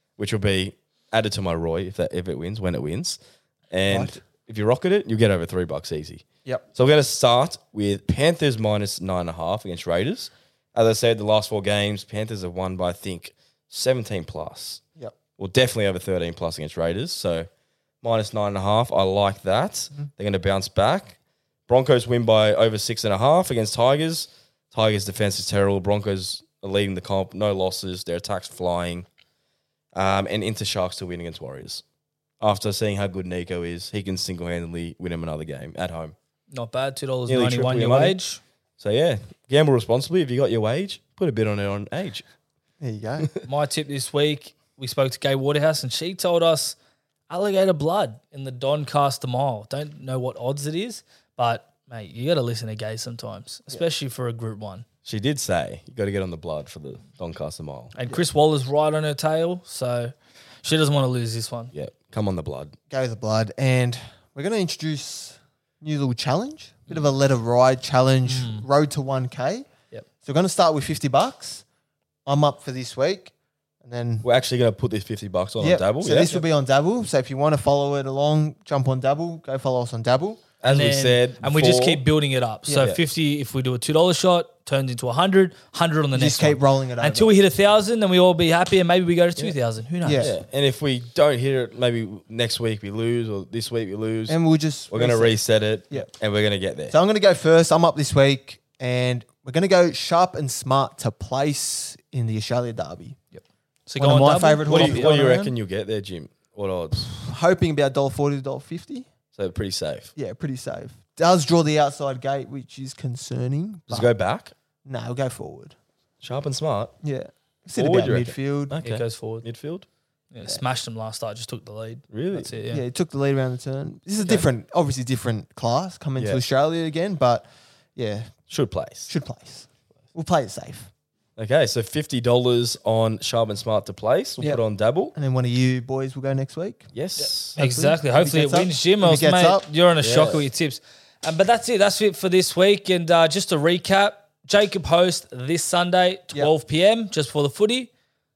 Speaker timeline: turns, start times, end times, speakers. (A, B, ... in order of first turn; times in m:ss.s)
0:00.2-0:03.2 A
0:03.7-0:14.8 A
0:03.9-0:04.2 B
0:15.4-0:17.5 A
0:18.0-0:21.2 A
0:21.7-0:29.1 A
0:29.9-0:31.8 A
0:32.4-0:36.2 A
0:36.5-0:38.4 C
0:37.3-0:38.2 A
0:38.8-0:42.2 A
0:42.8-0:43.3 B
0:43.4-0:46.8 C
0:47.3-0:54.8 C
0:55.0-0:57.9 A
0:58.0-1:01.7 C
1:01.7-1:02.8 A
1:02.9-1:09.7 B
1:08.3-1:08.7 C
1:10.2-1:11.6 B
1:12.3-1:14.3 B
1:14.2-1:16.4 A
1:15.6-1:20.5 B
1:20.6-1:22.0 A
1:20.6-1:30.3 C
1:26.1-1:27.4 B
1:30.0-1:30.3 B
1:30.2-1:34.4 A
1:34.3-1:35.4 B
1:34.9-1:37.0 A
1:36.9-1:43.2 B
1:43.3-1:45.2 C
1:44.0-1:45.6 B
1:44.7-1:47.1 A
1:47.0-1:49.1 B
1:49.4-1:50.1 A
1:50.2-1:54.1 B
1:53.9-1:54.5 A
1:54.8-1:55.8 B
1:56.2-1:56.9 A
1:57.0-1:58.8 B
1:57.8-1:59.9 A
1:58.8-1:59.4 C
2:00.3-2:02.8 C
2:02.1-2:02.5 A
2:02.7-2:08.3 B
2:06.2-2:06.4 A
2:08.5-2:09.1 A
2:09.1-2:10.9 B
2:11.4-2:15.1 A
2:15.2-2:16.9 B
2:16.9-2:17.6 A
2:17.2-2:27.9 C
2:17.6-2:19.7 B
2:20.0-2:20.4 A